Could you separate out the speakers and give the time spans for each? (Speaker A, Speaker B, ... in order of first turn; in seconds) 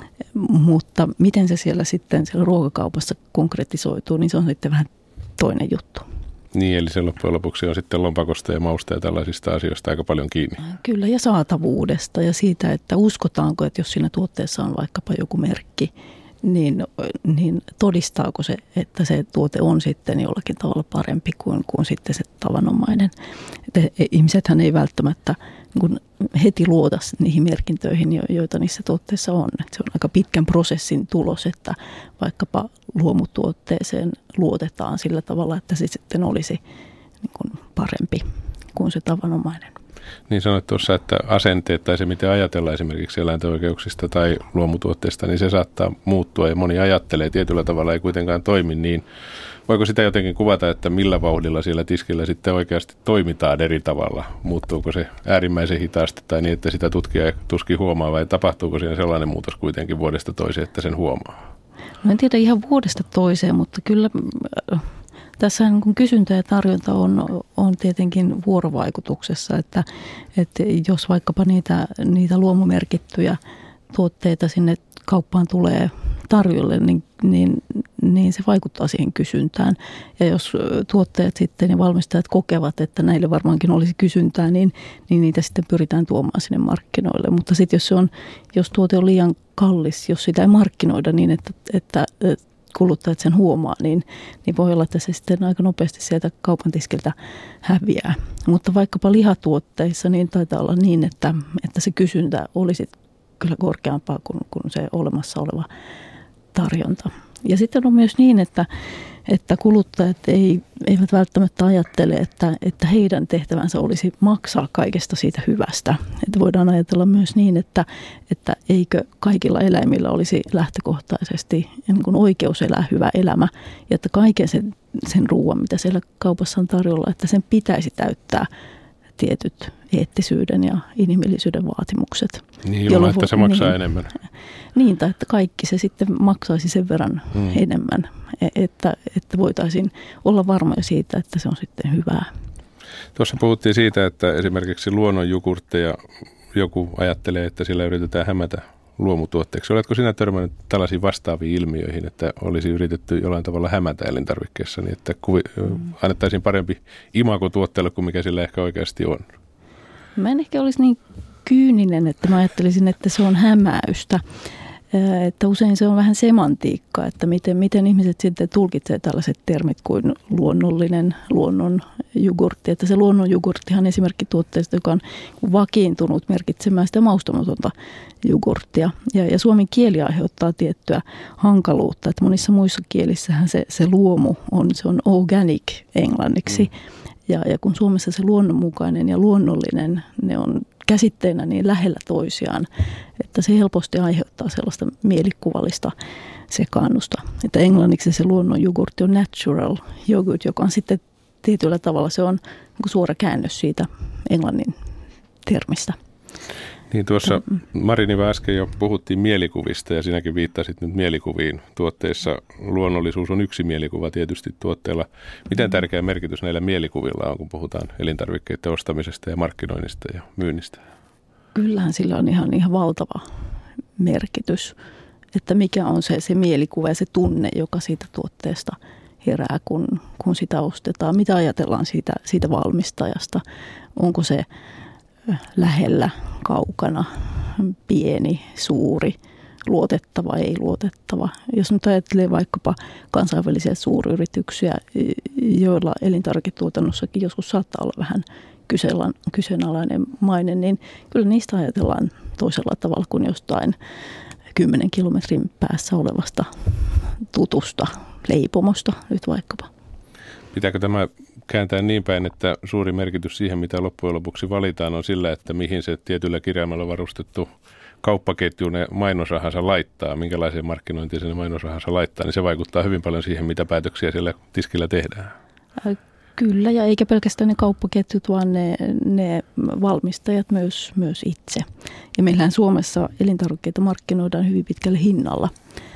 Speaker A: 0.3-6.1, 10.6-15.9, 16.4-23.1, 23.7-36.6, 37.2-39.7, 62.0-64.8, 65.4-73.4, 73.9-105.7, 106.5-108.7, 109.3-128.5, 129.2-133.8, 134.8-142.3, 160.2-164.2, 164.9-186.7, 187.3-192.7, 193.2-195.9, 196.5-204.8, 205.4-206.0, 221.6-223.2, 224.0-224.8, 225.3-233.4, 234.0-234.5, 235.3-253.8, 254.5-256.5, 257.3-259.7, 275.8-285.5
Speaker B: 6.5-10.6, 40.3-49.0, 49.7-61.4, 132.7-134.1, 143.2-146.0, 146.5-159.3, 206.9-220.8, 260.5-267.5, 268.0-275.3